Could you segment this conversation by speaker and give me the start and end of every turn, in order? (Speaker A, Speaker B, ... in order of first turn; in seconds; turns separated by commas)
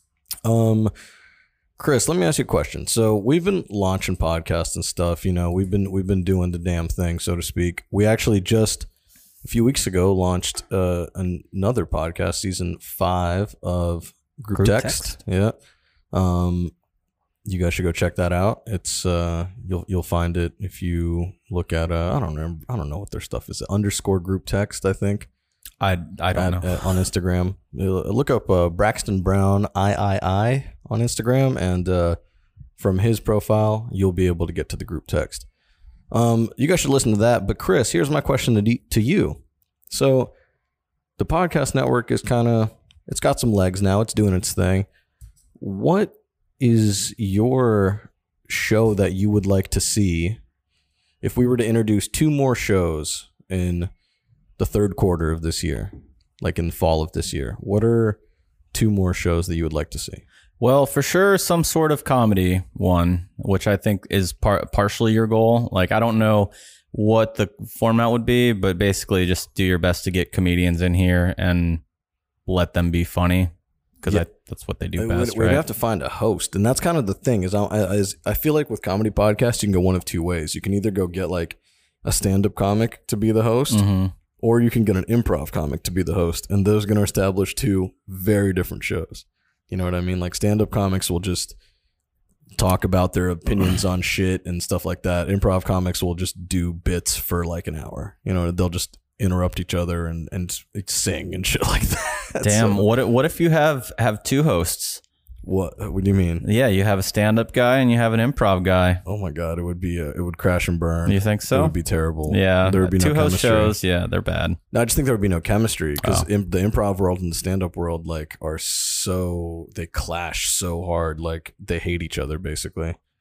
Speaker A: 0.4-0.9, Speaker A: 1.8-8.9, Speaker A: 9.4-15.6, Speaker B: 14.5-15.2, Speaker A: 16.1-16.7, Speaker A: 17.4-25.3, Speaker B: 25.8-26.8, Speaker A: 26.3-32.2, Speaker A: 32.8-35.5, Speaker A: 36.1-40.3, Speaker A: 41.2-44.9, Speaker A: 45.6-50.4, Speaker A: 51.2-53.9, Speaker A: 54.6-58.2, Speaker A: 58.7-60.2, Speaker B: 60.6-71.8, Speaker B: 72.5-73.5, Speaker B: 74.0-75.6, Speaker A: 75.0-83.8, Speaker B: 83.7-84.1, Speaker A: 84.4-91.6, Speaker A: 92.6-102.9, Speaker B: 102.4-105.0, Speaker A: 105.4-106.5, Speaker B: 106.4-109.0, Speaker A: 109.0-113.8, Speaker B: 111.1-111.8, Speaker B: 112.3-114.6, Speaker A: 114.7-123.0, Speaker B: 116.0-116.3